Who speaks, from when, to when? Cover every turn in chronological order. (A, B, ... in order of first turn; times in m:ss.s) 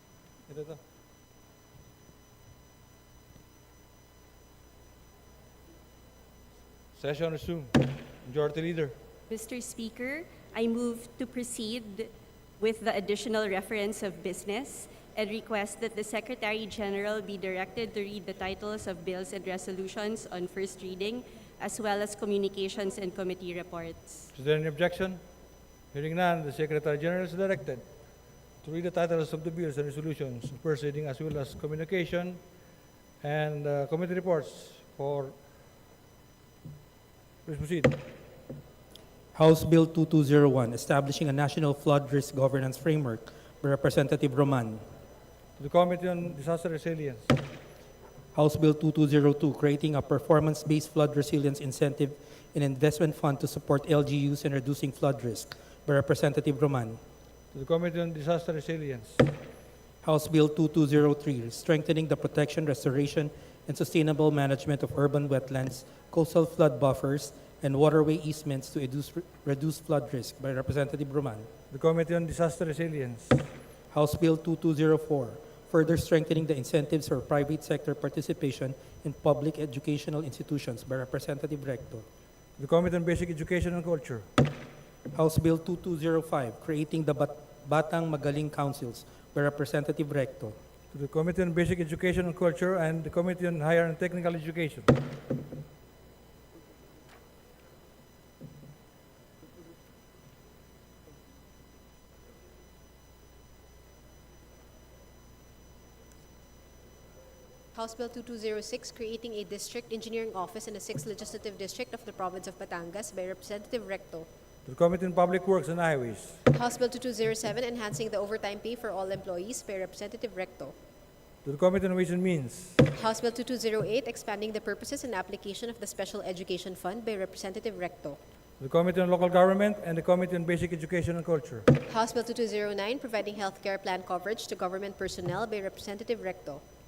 0:00.5-0:00.8 A
0:07.0-0:09.0 A
0:09.3-0:24.3 B
0:24.3-0:25.2 A
0:25.9-0:27.8 A
0:28.6-0:32.4 A
0:33.2-0:35.4 A
0:37.4-0:38.0 A
0:39.3-0:44.8 C
0:45.6-0:47.4 A
0:48.3-0:57.0 C
0:57.5-0:59.3 A
1:00.0-1:11.5 C
1:11.7-1:13.5 A
1:13.9-1:22.1 C
1:22.6-1:24.3 A
1:25.1-1:30.6 C
1:30.9-1:35.0 A
1:47.7-1:54.3 D
1:54.7-1:56.4 A
1:56.5-2:00.8 D
2:01.4-2:02.8 A
2:02.9-2:08.2 D
2:08.6-2:11.7 A
2:11.9-2:16.6 D